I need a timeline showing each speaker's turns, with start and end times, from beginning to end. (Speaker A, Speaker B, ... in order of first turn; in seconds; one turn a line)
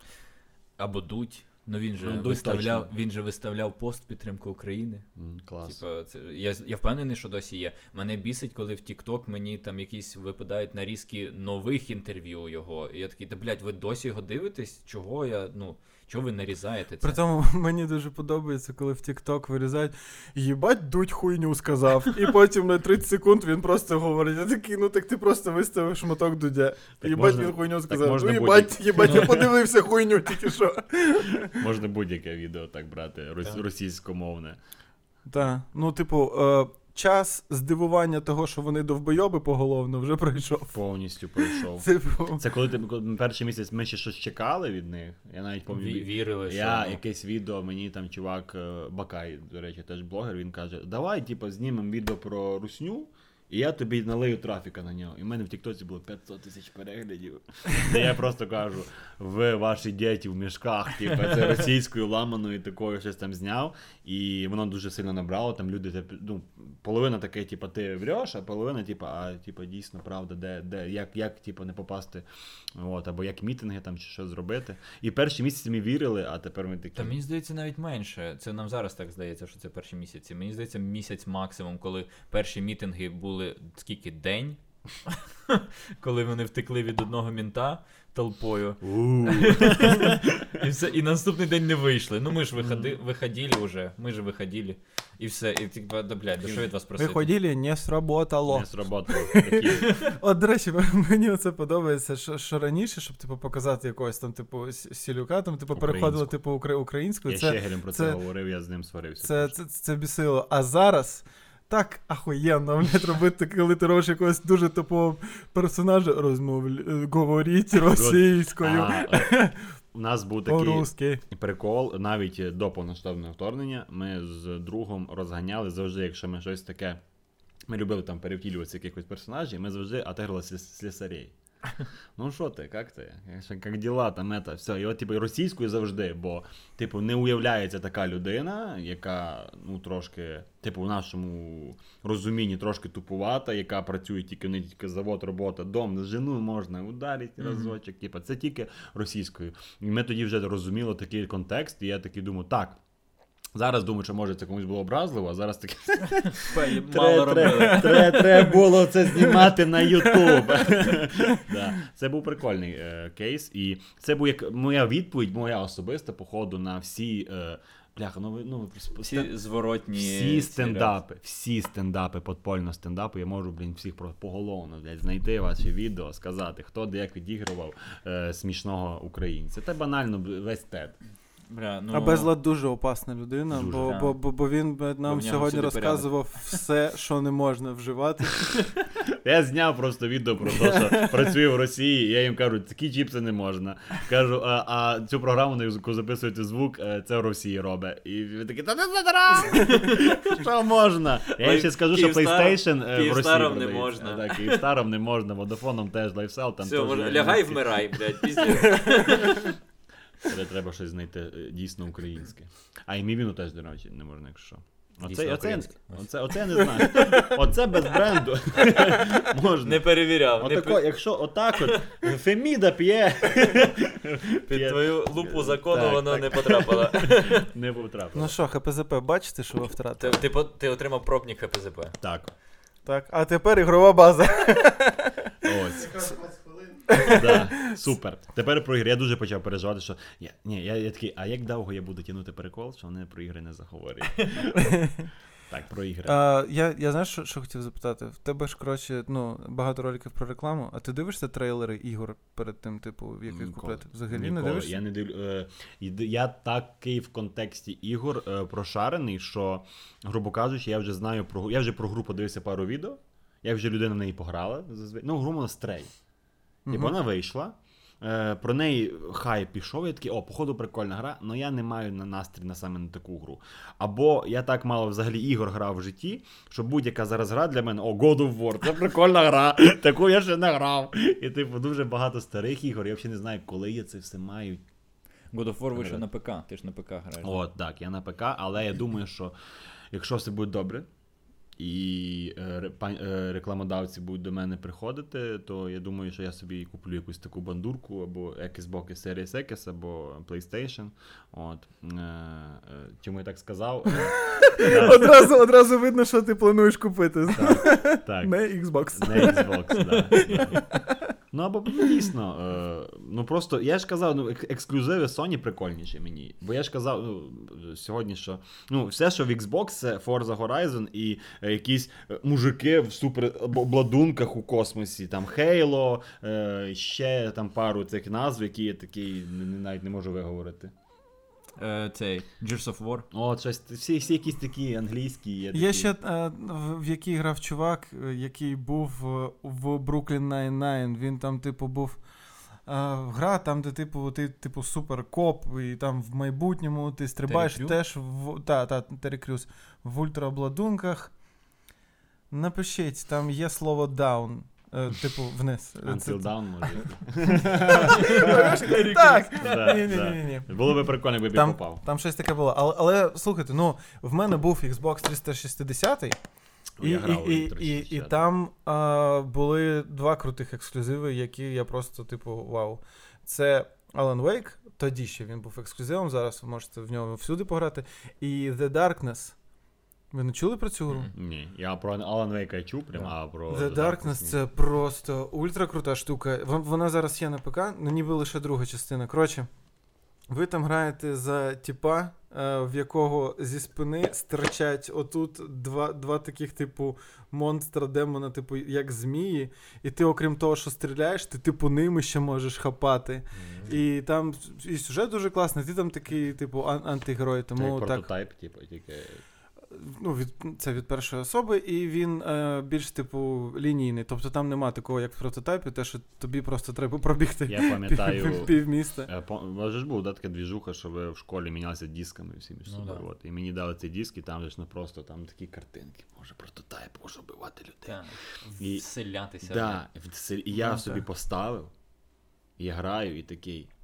Speaker A: 0.8-5.0
Speaker B: 2.0-2.9
Speaker B: 5.2-5.8
Speaker A: 5.6-17.2
Speaker C: 17.0-31.6
Speaker B: 27.0-29.5
Speaker B: 31.4-34.6
Speaker C: 35.3-40.8
Speaker B: 40.7-77.2
Speaker C: 41.4-42.4
Speaker A: 45.7-47.0
Speaker A: 77.0-97.3
Speaker B: 88.8-90.6
Speaker B: 92.6-92.9
Speaker C: 97.0-108.2
Speaker B: 98.5-100.0
Speaker A: 99.7-100.1
Speaker B: 105.7-106.3
Speaker B: 107.2-109.5
Speaker C: 109.2-119.6
Speaker B: 117.9-127.0
Speaker C: 120.5-121.2
Speaker B: 127.7-131.3
Speaker B: 132.2-152.8
Speaker A: 147.4-147.7
Speaker B: 153.5-169.3
Speaker A: 156.3-158.5
Speaker A: 169.0-170.9
Speaker B: 169.9-180.9
Speaker A: 181.5-182.3
Speaker C: 181.9-188.6
Speaker B: 183.5-184.0
Speaker A: 183.8-184.2
Speaker A: 185.0-186.6
Speaker B: 189.0-208.4
Speaker C: 190.5-191.3
Speaker A: 199.5-200.4
Speaker A: 201.3-204.7
Speaker A: 206.6-209.6
Speaker B: 210.2-228.3
Speaker A: 215.0-217.2
Speaker A: 218.7-219.1
Speaker A: 219.6-220.8
Speaker A: 221.6-222.0
Speaker A: 224.5-227.5
Speaker C: 228.1-230.2
Speaker A: 230.0-231.9
Speaker B: 232.0-232.3
Speaker C: 232.8-235.5
Speaker B: 235.4-236.3
Speaker C: 236.8-237.8
Speaker B: 237.0-244.9
Speaker C: 244.5-245.1
Speaker B: 245.5-246.1
Speaker C: 246.0-254.8
Speaker B: 253.3-265.9
Speaker C: 266.6-266.9
Speaker B: 266.7-284.6
Speaker A: 285.3-287.4
Speaker B: 285.7-286.0
Speaker B: 287.2-289.3
Speaker B: 289.9-290.9
Speaker B: 291.6-305.3
Speaker C: 303.9-311.1
Speaker B: 307.3-308.3
Speaker B: 308.9-310.7
Speaker B: 311.3-330.7
Speaker A: 331.6-333.1
Speaker B: 333.1-335.9
Speaker C: 335.5-342.0
Speaker C: 342.6-351.1
Speaker A: 347.2-347.8
Speaker C: 352.3-360.5
Speaker B: 355.8-358.7
Speaker A: 357.7-359.9
Speaker B: 359.4-361.8
Speaker C: 361.3-366.2
Speaker B: 366.8-368.2
Speaker C: 366.8-379.3
Speaker C: 380.1-381.1
Speaker B: 381.1-384.4
Speaker C: 383.5-389.5
Speaker C: 390.3-408.1
Speaker B: 403.3-403.7
Speaker B: 407.6-409.2
Speaker C: 409.7-419.1
Speaker B: 417.5-428.0
Speaker A: 422.6-423.0
Speaker A: 427.9-429.8
Speaker B: 428.6-428.8
Speaker B: 429.4-431.7
Speaker B: 432.6-433.7